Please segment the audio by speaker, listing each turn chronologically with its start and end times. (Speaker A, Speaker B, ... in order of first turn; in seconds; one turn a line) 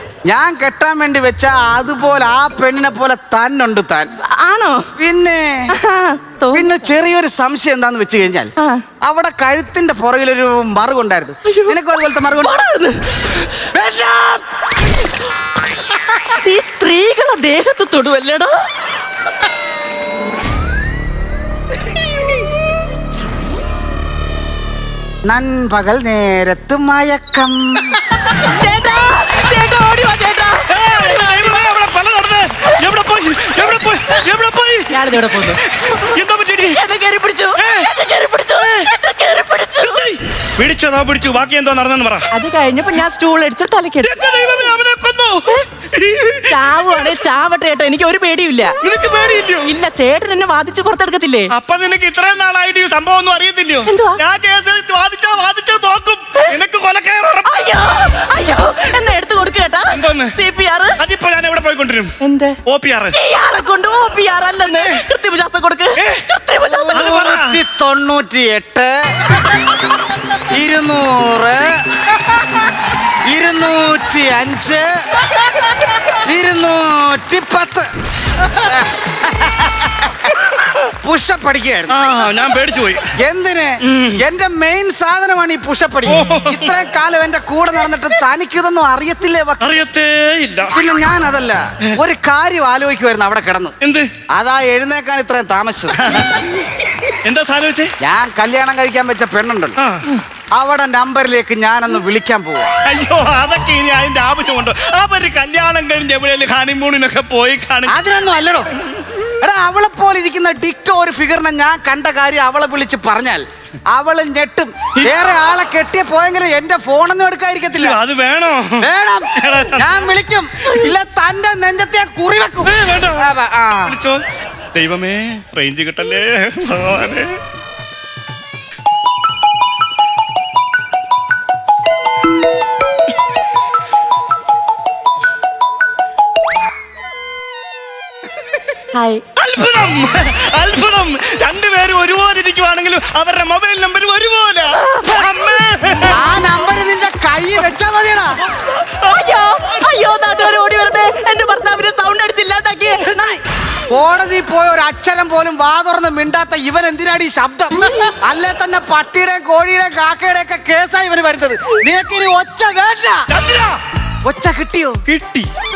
Speaker A: 0.3-4.1
Speaker B: 4.2-4.9
Speaker A: 5.0-5.8
Speaker B: 5.7-6.7
Speaker A: 6.5-12.6
Speaker B: 11.5-11.8
Speaker B: 12.4-13.0
Speaker A: 13.6-14.5
Speaker B: 16.1-18.8
Speaker A: 25.2-28.0
Speaker B: 28.2-31.5
Speaker C: 30.7-35.0
Speaker B: 34.9-36.1
Speaker C: 35.7-36.8
Speaker B: 36.8-40.0
Speaker C: 37.6-37.9
Speaker C: 38.6-38.9
Speaker C: 39.8-42.3
Speaker B: 42.3-44.4
Speaker C: 44.0-47.1
Speaker B: 46.5-48.8
Speaker C: 48.8-49.7
Speaker B: 49.6-51.5
Speaker C: 51.5-57.6
Speaker B: 53.9-54.2
Speaker B: 57.5-61.0
Speaker C: 59.9-60.3
Speaker C: 61.0-62.1
Speaker B: 62.2-62.6
Speaker C: 62.7-63.1
Speaker B: 63.1-67.1
Speaker C: 66.0-66.2
Speaker A: 66.9-69.3
Speaker C: 66.9-67.6
Speaker A: 70.5-72.1
Speaker A: 73.2-74.9
Speaker A: 76.1-77.9
Speaker A: 78.5-80.4
Speaker A: 81.0-82.0
Speaker C: 81.9-83.0
Speaker A: 83.2-89.6
Speaker C: 83.8-84.2
Speaker C: 86.1-86.7
Speaker C: 89.6-90.8
Speaker A: 90.7-93.7
Speaker C: 93.8-94.1
Speaker A: 94.3-96.1
Speaker C: 96.0-96.4
Speaker C: 97.2-97.9
Speaker A: 98.0-99.8
Speaker C: 99.8-100.1
Speaker A: 100.5-102.7
Speaker C: 102.8-108.0
Speaker A: 107.9-108.7
Speaker A: 109.4-118.0
Speaker C: 117.7-120.0
Speaker A: 118.8-124.0
Speaker C: 122.6-123.3
Speaker C: 123.9-124.2
Speaker C: 124.7-127.4
Speaker B: 138.9-139.2
Speaker C: 139.4-146.2
Speaker B: 144.8-145.3
Speaker A: 146.1-148.4
Speaker C: 148.5-149.9
Speaker B: 149.1-153.4
Speaker A: 153.9-163.3
Speaker B: 157.8-158.1
Speaker C: 163.3-163.8
Speaker A: 164.2-165.0
Speaker C: 165.1-165.5